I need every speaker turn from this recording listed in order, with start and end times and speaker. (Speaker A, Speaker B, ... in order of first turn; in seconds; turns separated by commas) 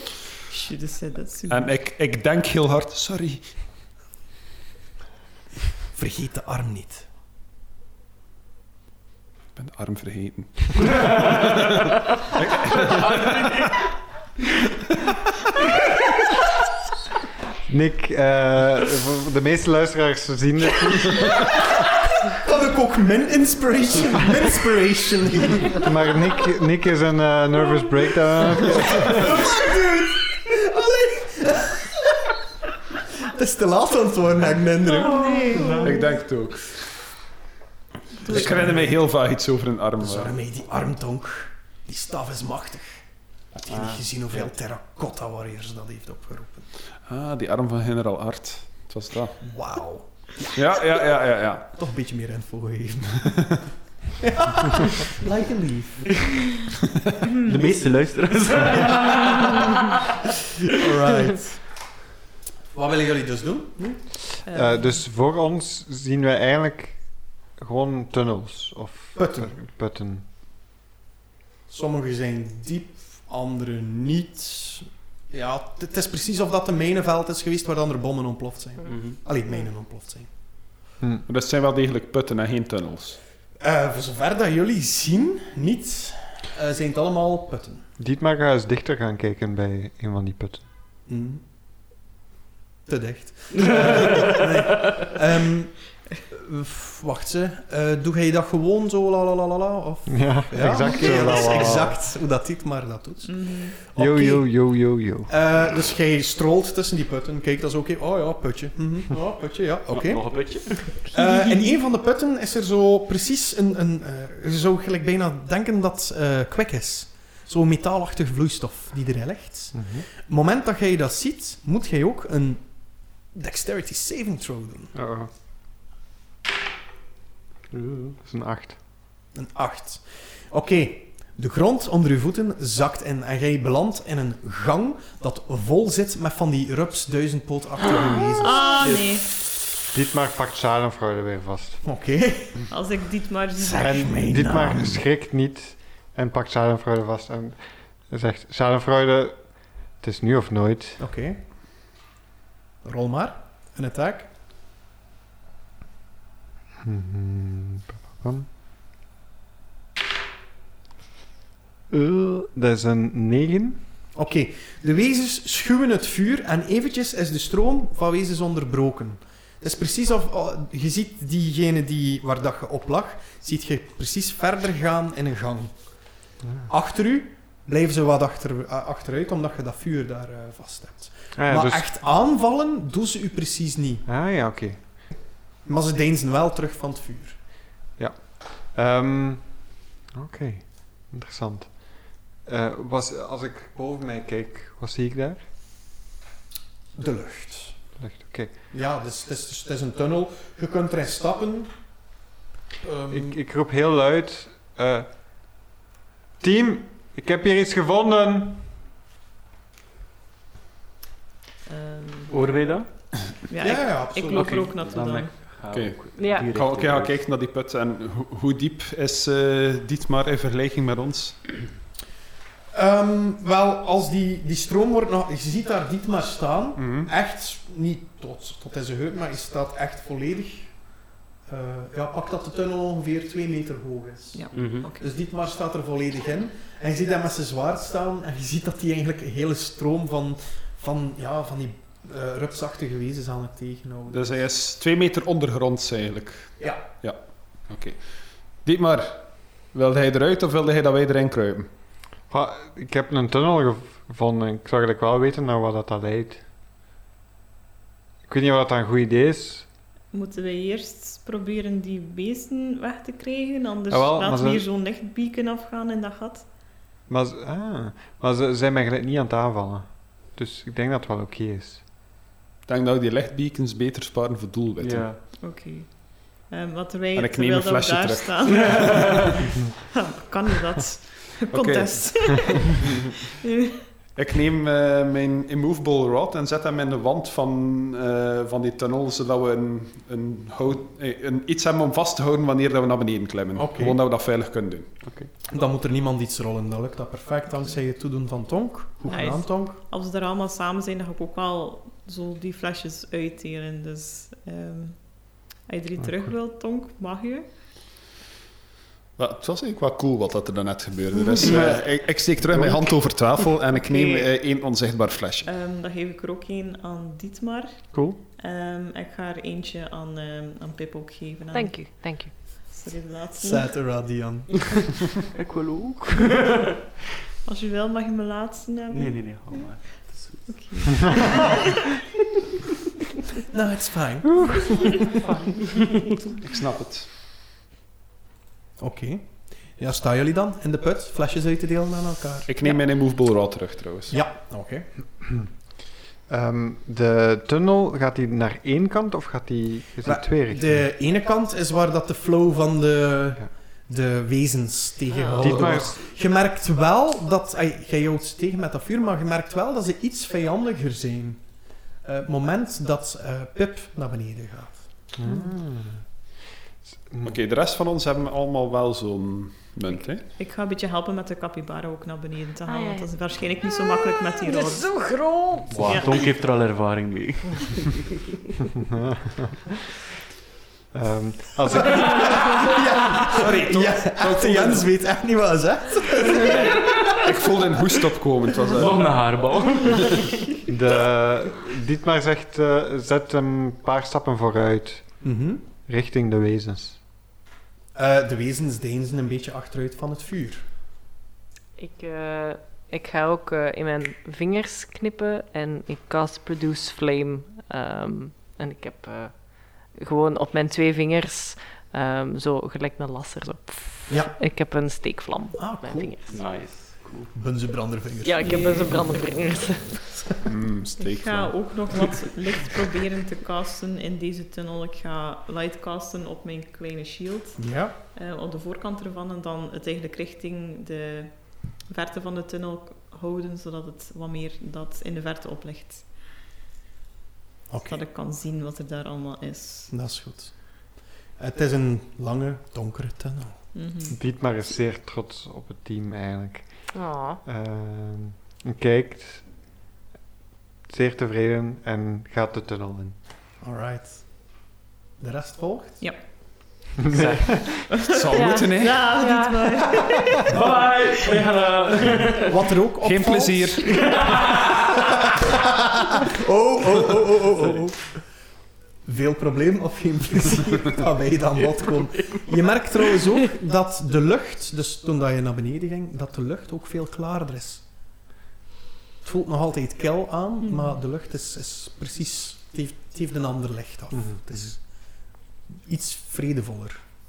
Speaker A: 0.5-1.8, Speaker B: 1.5-3.5, Speaker C: 5.9-7.1, Speaker B: 9.6-13.7, Speaker D: 17.7-21.7, Speaker C: 22.3-25.8, Speaker D: 25.7-29.3, Speaker C: 29.0-32.2, Speaker C: 33.3-35.9, Speaker A: 34.8-36.2, Speaker B: 35.8-37.0, Speaker A: 38.2-38.7, Speaker C: 38.3-39.0, Speaker B: 38.3-40.4, Speaker C: 40.0-43.0, Speaker C: 43.5-46.7, Speaker E: 43.7-44.5, Speaker B: 47.1-49.4, Speaker C: 49.4-50.6, Speaker B: 50.5-51.7, Speaker C: 51.7-53.3, Speaker B: 53.3-53.6, Speaker C: 54.2-56.3, Speaker E: 57.4-59.9, Speaker C: 60.7-61.7, Speaker C: 62.7-64.0, Speaker A: 64.5-64.8, Speaker D: 64.5-70.2, Speaker C: 69.2-69.5, Speaker C: 71.7-80.3, Speaker E: 78.9-79.2, Speaker B: 81.3-83.2, Speaker C: 83.6-87.8, Speaker D: 88.0-90.6, Speaker C: 91.1-91.4, Speaker C: 92.9-104.6, Speaker D: 100.1-102.0, Speaker A: 103.2-103.8, Speaker D: 104.0-105.3, Speaker C: 105.3-125.0, Speaker E: 109.9-111.1, Speaker A: 111.1-111.7, Speaker D: 119.7-120.1, Speaker D: 124.9-125.3, Speaker D: 127.7-128.8, Speaker C: 129.3-139.0, Speaker A: 138.4-139.3, Speaker D: 139.9-141.8, Speaker C: 141.8-142.7, Speaker A: 142.7-144.3, Speaker C: 143.6-145.0, Speaker D: 143.8-151.0, Speaker C: 151.0-151.4, Speaker C: 152.8-154.3, Speaker D: 156.8-158.5, Speaker D: 161.9-163.8, Speaker C: 164.1-175.9, Speaker C: 176.7-184.1, Speaker D: 181.4-181.9, Speaker D: 184.1-185.0, Speaker C: 185.6-187.4, Speaker D: 188.0-195.4, Speaker C: 197.0-197.8, Speaker D: 198.0-198.5, Speaker C: 198.7-201.9, Speaker C: 202.8-203.3, Speaker D: 203.1-205.1, Speaker D: 206.4-208.7, Speaker A: 211.7-212.3, Speaker E: 212.3-213.3, Speaker A: 213.5-215.6, Speaker C: 213.6-214.7, Speaker E: 214.3-217.1, Speaker B: 215.7-221.4, Speaker F: 216.2-216.5, Speaker C: 222.7-230.8, Speaker B: 226.8-227.1, Speaker C: 231.5-244.4, Speaker A: 234.3-235.1, Speaker E: 234.5-234.9, Speaker B: 244.1-248.0, Speaker C: 246.6-246.9, Speaker B: 248.6-251.7, Speaker D: 252.3-256.4, Speaker D: 258.3-259.7, Speaker A: 260.1-266.5, Speaker D: 263.9-264.6, Speaker D: 267.1-271.9, Speaker B: 272.7-275.2, Speaker E: 274.8-275.2, Speaker A: 275.4-282.9, Speaker B: 277.2-279.2, Speaker B: 281.5-282.9, Speaker A: 283.4-283.9, Speaker B: 284.1-295.0, Speaker C: 293.6-294.0, Speaker E: 295.0-295.3, Speaker C: 295.5-299.8, Speaker A: 299.1-307.5, Speaker B: 309.2-315.5, Speaker E: 311.4-311.8, Speaker A: 313.8-314.3, Speaker A: 315.4-323.8, Speaker F: 321.5-322.7, Speaker C: 323.4-325.0, Speaker E: 325.3-326.6, Speaker A: 327.4-329.8, Speaker E: 328.9-331.1, Speaker A: 330.5-331.7, Speaker C: 333.5-335.2, Speaker B: 336.4-337.1, Speaker C: 338.8-342.8, Speaker B: 342.5-344.2, Speaker C: 344.1-344.9, Speaker D: 346.3-350.8, Speaker C: 350.1-364.9, Speaker D: 355.3-356.0, Speaker D: 365.2-366.0, Speaker B: 367.2-370.3, Speaker A: 370.4-375.2, Speaker F: 372.7-373.1, Speaker F: 374.1-375.8, Speaker E: 375.7-378.1, Speaker A: 375.8-376.3, Speaker D: 380.9-382.4, Speaker C: 381.8-387.2, Speaker B: 383.3-384.9, Speaker B: 387.1-389.2, Speaker E: 388.8-390.4, Speaker D: 390.7-395.3, Speaker C: 395.2-395.6, Speaker D: 395.9-397.0, Speaker C: 397.9-400.6, Speaker F: 401.8-416.3, Speaker C: 414.1-414.4, Speaker C: 415.6-416.4, Speaker E: 416.3-417.3, Speaker C: 417.3-418.5, Speaker F: 418.2-420.0, Speaker A: 418.4-418.9, Speaker B: 420.5-422.1, Speaker A: 421.0-436.1, Speaker C: 427.6-427.9, Speaker C: 437.7-438.0, Speaker A: 437.8-439.9, Speaker C: 439.9-443.6, Speaker A: 443.7-444.2, Speaker D: 444.1-449.5, Speaker F: 446.9-447.4, Speaker D: 450.9-453.2, Speaker C: 453.6-454.7, Speaker C: 455.2-456.0, Speaker E: 457.1-457.5, Speaker A: 457.9-460.6, Speaker B: 458.1-459.2, Speaker F: 458.3-459.6, Speaker E: 460.5-462.5, Speaker C: 462.4-464.0, Speaker B: 463.0-464.2, Speaker E: 464.0-464.7, Speaker C: 466.2-468.2, Speaker C: 469.1-477.8, Speaker C: 479.2-484.9, Speaker A: 480.6-481.0, Speaker D: 484.1-484.4, Speaker C: 485.7-487.0